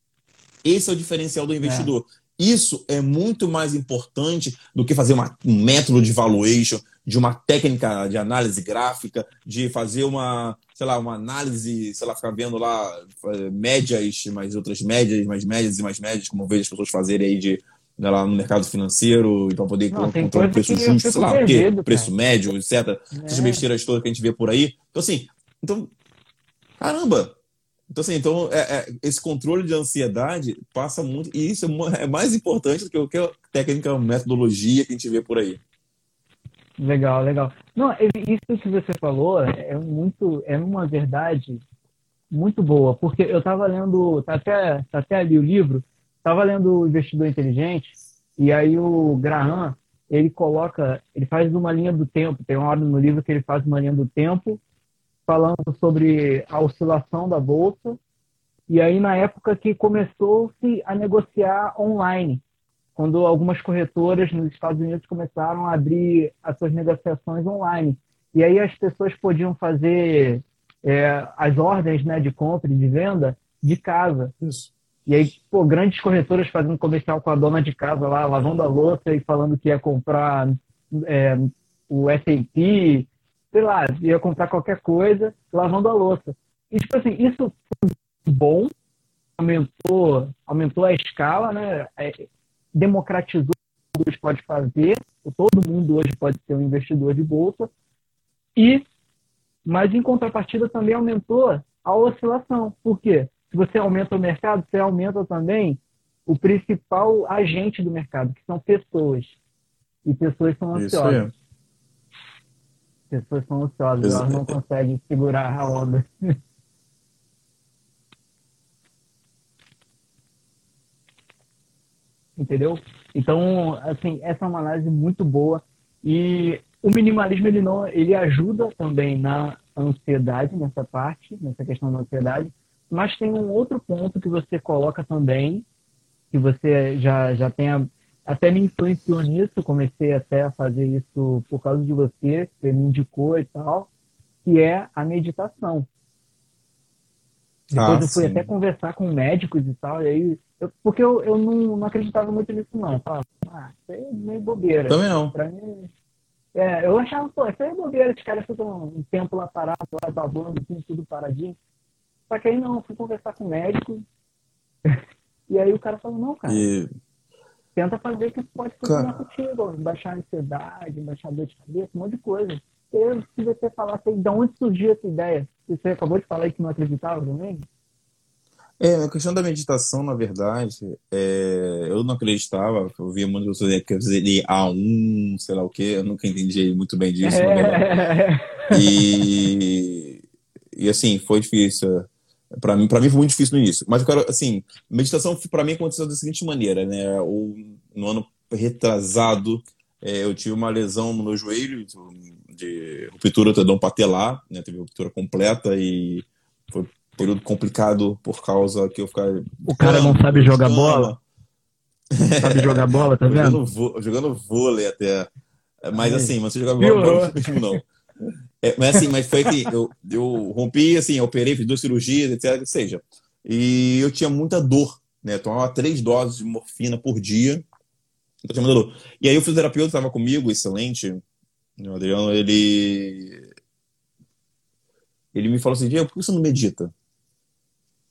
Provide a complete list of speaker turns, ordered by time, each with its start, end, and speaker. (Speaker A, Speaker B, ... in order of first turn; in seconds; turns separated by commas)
Speaker A: 0.6-25.9, Speaker B: 1.6-1.9, Speaker B: 19.9-22.1, Speaker B: 23.1-23.6, Speaker A: 26.8-27.4, Speaker A: 27.9-35.6, Speaker B: 36.8-41.6, Speaker B: 42.3-54.6, Speaker B: 55.3-58.0, Speaker B: 58.7-62.4, Speaker B: 63.0-74.3, Speaker A: 74.4-74.7, Speaker B: 75.0-88.7, Speaker B: 89.4-97.7, Speaker B: 98.5-98.8, Speaker B: 99.7-109.4, Speaker B: 110.0-111.2, Speaker A: 110.7-111.3, Speaker B: 113.1-116.0, Speaker A: 114.0-114.5, Speaker B: 122.4-135.6, Speaker B: 136.3-143.9, Speaker B: 144.4-145.9, Speaker B: 147.7-155.9, Speaker A: 147.7-148.5, Speaker A: 154.9-155.3, Speaker B: 156.5-161.6, Speaker B: 162.3-164.1, Speaker B: 165.5-166.7, Speaker A: 166.5-166.9, Speaker B: 167.7-177.7, Speaker A: 168.8-169.1, Speaker A: 178.8-187.9, Speaker B: 187.2-189.0, Speaker A: 188.7-190.2, Speaker A: 190.7-211.2, Speaker B: 209.7-211.1, Speaker A: 212.1-215.3, Speaker B: 212.4-213.6, Speaker A: 215.8-217.8, Speaker B: 215.9-217.8, Speaker A: 218.6-227.6, Speaker A: 228.4-231.2, Speaker A: 231.8-233.4, Speaker A: 235.3-236.9